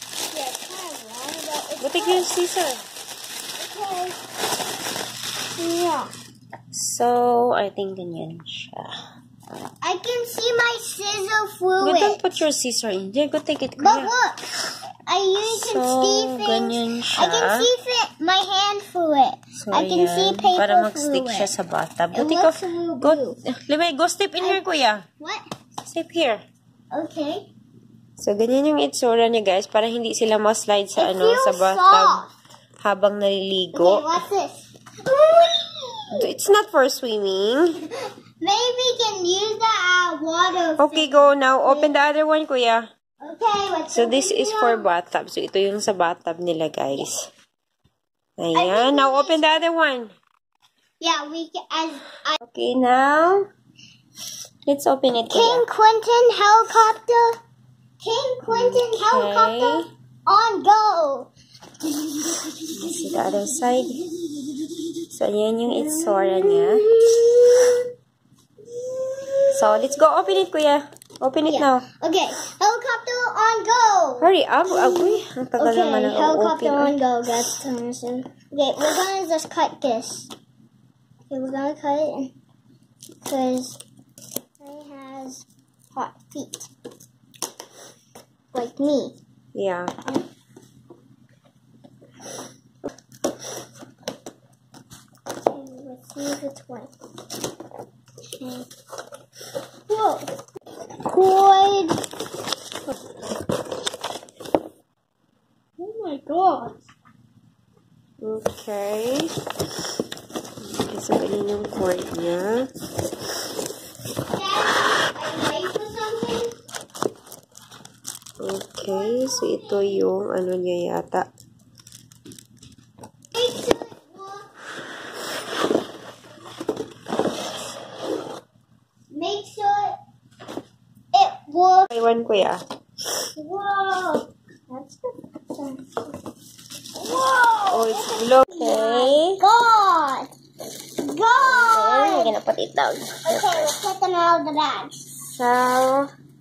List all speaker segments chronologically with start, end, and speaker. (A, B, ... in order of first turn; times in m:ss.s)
0:00.3-0:02.3 A
0:01.8-0:02.8 B
0:03.6-0:04.2 A
0:05.6-0:06.1 A
0:06.7-0:08.9 B
0:09.8-0:12.2 A
0:11.8-0:14.1 B
0:13.8-0:14.4 A
0:15.1-0:21.5 A
0:15.4-0:17.7 B
0:19.6-0:25.0 B
0:22.1-0:23.4 A
0:25.2-0:25.4 A
0:25.8-0:26.4 B
0:26.9-0:27.5 A
0:28.2-0:32.2 B
0:31.0-0:32.3 A
0:32.8-0:34.1 B
0:33.7-0:36.3 A
0:36.2-0:37.8 B
0:38.4-0:41.9 A
0:40.8-0:42.9 B
0:43.2-0:44.9 A
0:43.9-0:47.3 B
0:48.4-0:50.2 B
0:48.5-0:49.4 A
0:51.0-0:52.4 A
0:52.4-0:53.4 B
0:54.7-0:55.6 B
0:55.3-0:57.4 A
0:58.0-1:01.3 A
0:58.5-0:59.9 B
1:01.8-1:04.3 A
1:02.7-1:04.0 B
1:05.1-1:06.8 B
1:05.8-1:07.9 A
1:08.7-1:09.9 A
1:09.5-1:11.8 B
1:11.5-1:20.3 A
1:14.2-1:16.9 B
1:21.3-1:22.3 A
1:23.2-1:23.8 A
1:24.6-1:26.7 A
1:28.5-1:29.2 A
1:29.5-1:29.9 B
1:35.5-1:36.9 A
1:38.4-1:38.7 A
1:39.9-1:40.3 A
1:41.0-1:42.0 A
1:45.8-1:46.8 A
1:48.2-1:49.3 B
1:50.6-1:52.7 B
1:54.3-1:56.5 A
1:58.4-2:01.3 B
1:58.8-2:00.1 A
2:03.3-2:04.5 A
2:09.1-2:10.0 A
2:11.1-2:11.9 A
2:11.9-2:12.6 B
2:13.3-2:16.0 A
2:17.0-2:20.3 A
2:17.7-2:19.4 B
2:21.0-2:22.4 A
2:21.4-2:23.6 B
2:23.3-2:25.1 A
2:25.2-2:26.1 B